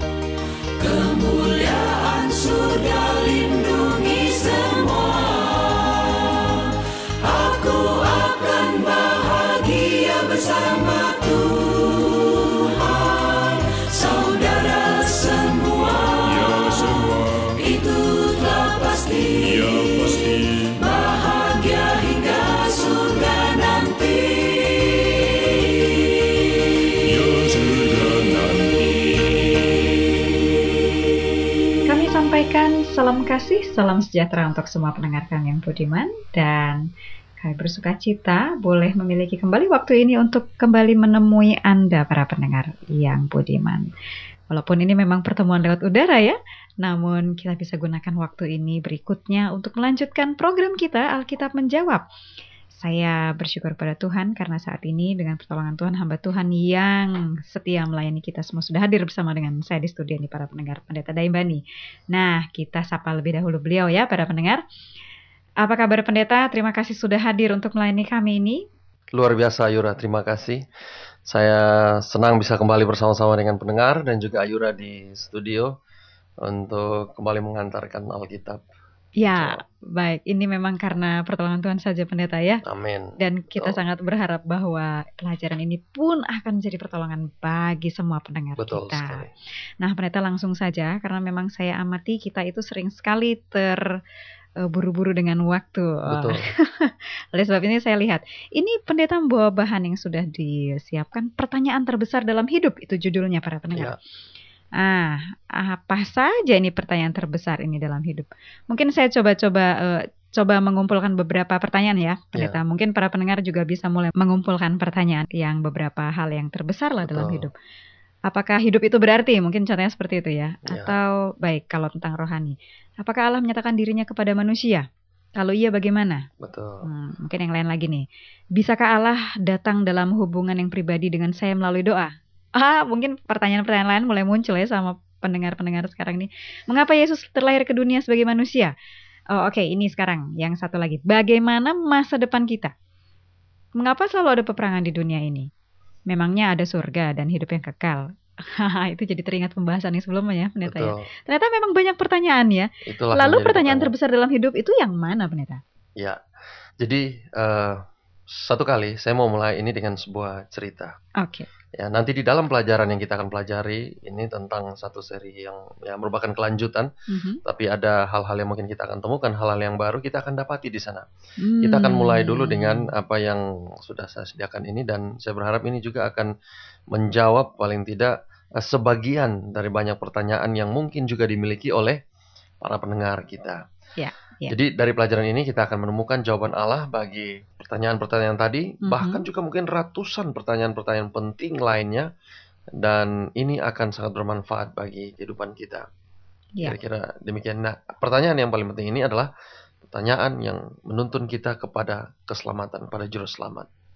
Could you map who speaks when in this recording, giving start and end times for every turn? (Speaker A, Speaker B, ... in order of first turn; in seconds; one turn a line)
Speaker A: 0.8-25.6
Speaker B: 16.2-17.6
Speaker B: 19.3-20.8
Speaker A: 26.1-26.7
Speaker B: 27.1-29.5
Speaker C: 31.9-36.9
Speaker C: 37.4-43.9
Speaker C: 44.5-52.0
Speaker C: 52.7-64.6
Speaker C: 65.6-68.6
Speaker D: 69.1-70.7
Speaker D: 71.3-75.7
Speaker D: 76.4-78.6
Speaker C: 79.2-82.6
Speaker D: 79.3-79.6
Speaker D: 82.6-83.8
Speaker C: 83.2-89.2
Speaker D: 88.6-89.3
Speaker C: 89.8-93.9
Speaker C: 94.7-104.0
Speaker D: 96.1-96.4
Speaker C: 104.8-117.5
Speaker D: 117.0-117.5
Speaker C: 118.3-124.8
Speaker D: 120.7-121.0
Speaker C: 125.4-126.3
Speaker D: 126.4-126.9
Speaker C: 126.8-128.1
Speaker C: 128.6-138.7
Speaker C: 139.3-142.7
Speaker C: 143.8-145.5
Speaker C: 146.1-155.6
Speaker D: 150.7-151.1
Speaker D: 152.9-153.9
Speaker D: 156.8-160.9
Speaker C: 161.2-161.5
Speaker D: 161.8-166.9
Speaker C: 167.1-167.4
Speaker D: 167.4-171.1
Speaker C: 171.4-172.9
Speaker D: 171.6-176.3
Speaker D: 176.9-182.0
Speaker D: 182.6-183.6
Speaker C: 184.0-184.6
Speaker D: 184.5-192.1
Speaker C: 188.8-189.3
Speaker D: 192.8-195.9
Speaker D: 196.6-199.3
Speaker D: 199.9-203.7